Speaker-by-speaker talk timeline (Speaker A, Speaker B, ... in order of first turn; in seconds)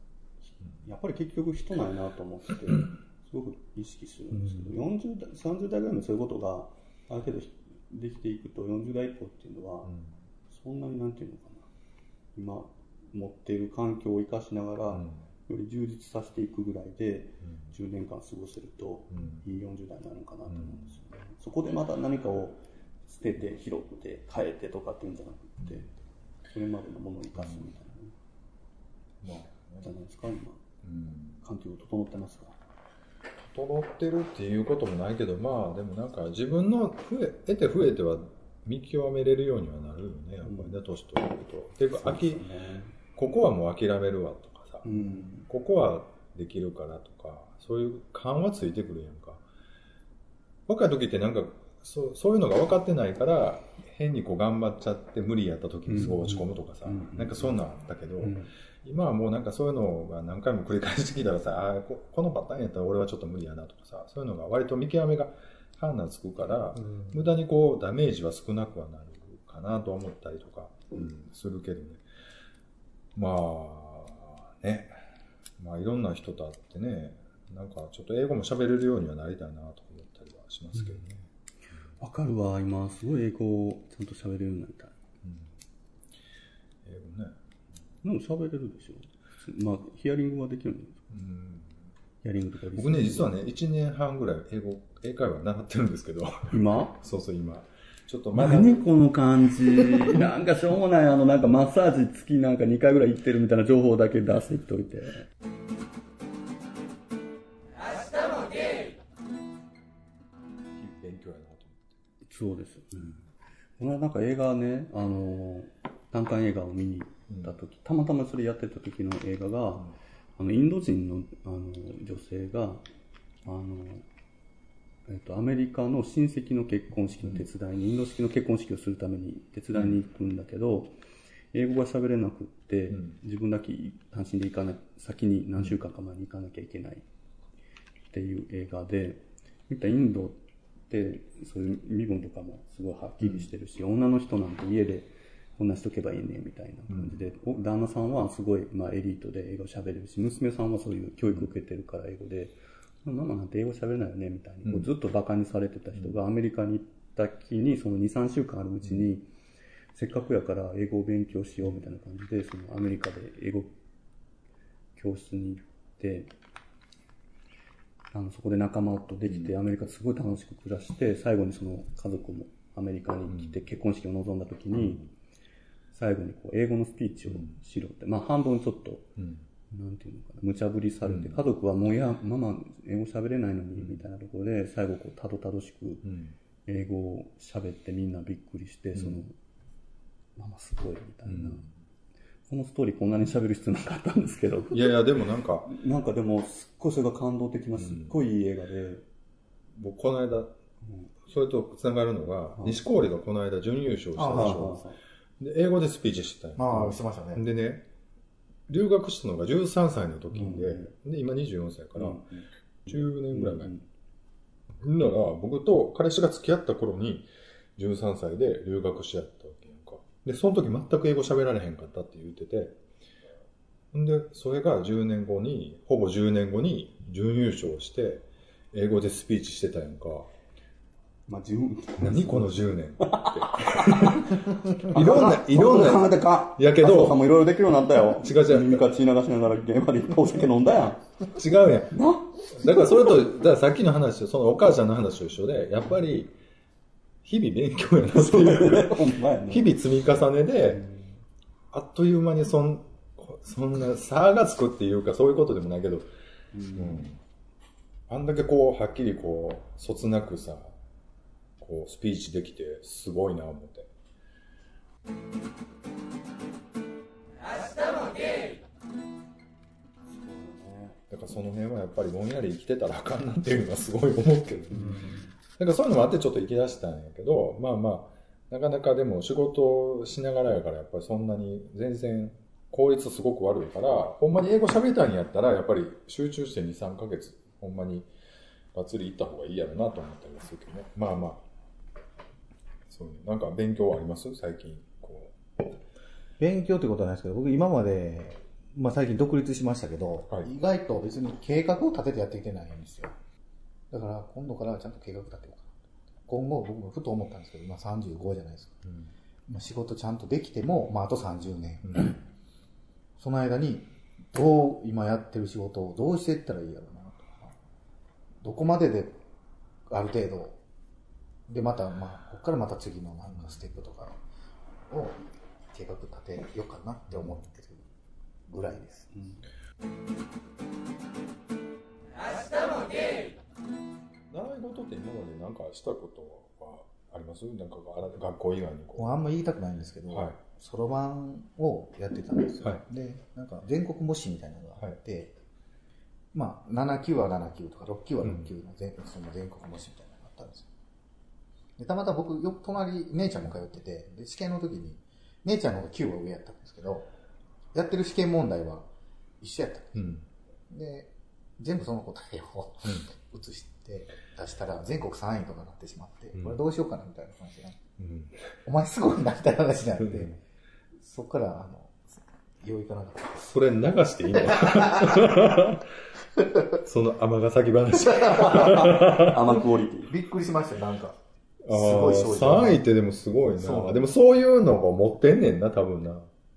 Speaker A: 0.4-9.9, 10.5-11.7, 12.3-25.9, 26.5-28.1, 29.8-30.6, 31.4-32.6, 40.5-40.8, 41.9-43.0, 44.8-45.5, 55.9-57.5, 58.2-58.5, 82.0-85.0, 88.0-91.1, 92.2-93.3, 96.5-97.0, 98.3-105.3, 112.3-113.3, 113.8-122.8, 123.5-124.1, 125.1-131.0, 131.5-137.1, 138.1-140.4, 140.9-159.3, 159.9-163.7, 165.0-166.3, 168.1-175.1, 175.9-179.2, 179.7-186.1, 186.7-189.3, 190.4-191.7, 192.5-194.9, 195.7-199.0, 204.2-205.0, 210.3-210.9, 212.0-213.9, 231.3-241.1, 241.9-242.9, 248.1-249.8, 250.7-251.2, 256.5-257.1, 270.1-271.0, 274.8-275.2, 329.1-329.4, 378.4-380.2
Speaker B: 9.9-10.1, 14.9-15.2, 19.1-19.4, 20.5-20.9, 29.2-29.9, 30.8-31.4, 33.4-42.5, 43.1-49.4, 50.7-72.0, 73.2-75.0, 75.6-81.3, 85.2-85.5, 86.8-87.4, 91.1-91.7, 92.7-98.8, 110.8-111.9, 146.9-147.2, 179.2-179.4, 181.1-181.4, 186.1-186.4, 188.9-189.2, 191.3-191.7, 194.7-195.7, 197.8-198.2, 199.8-200.6, 201.3-204.8, 205.4-207.9, 208.7-212.3, 212.9-213.7, 214.8-222.8, 223.9-230.3, 232.0-237.2, 238.1-238.8, 241.3-246.3, 247.2-250.8, 251.7-256.1, 256.8-257.2, 258.1-260.8, 261.6-263.9, 271.1-288.1, 288.7-291.4, 292.9-295.4, 308.9-309.1, 327.1-327.4, 334.3-339.2, 340.1-340.4, 348.2-348.5, 359.9-360.3, 368.0-368.4, 373.4-375.9, 376.8-379.4, 381.6-386.3
Speaker C: 204.2-204.6, 206.6-207.4, 296.4-303.1, 303.9-305.7, 306.3-308.8, 309.5-312.2, 313.2-317.5, 318.4-319.2, 319.9-320.6, 321.5-324.2, 324.9-327.9, 328.5-329.2, 339.0-345.3, 346.3-350.7, 351.8-357.1, 357.7-358.9, 359.4-360.1, 360.7-367.8, 368.6-370.4, 371.0-373.4, 374.5-375.4, 377.9-379.2, 380.1-381.2, 381.7-382.9, 383.6-384.0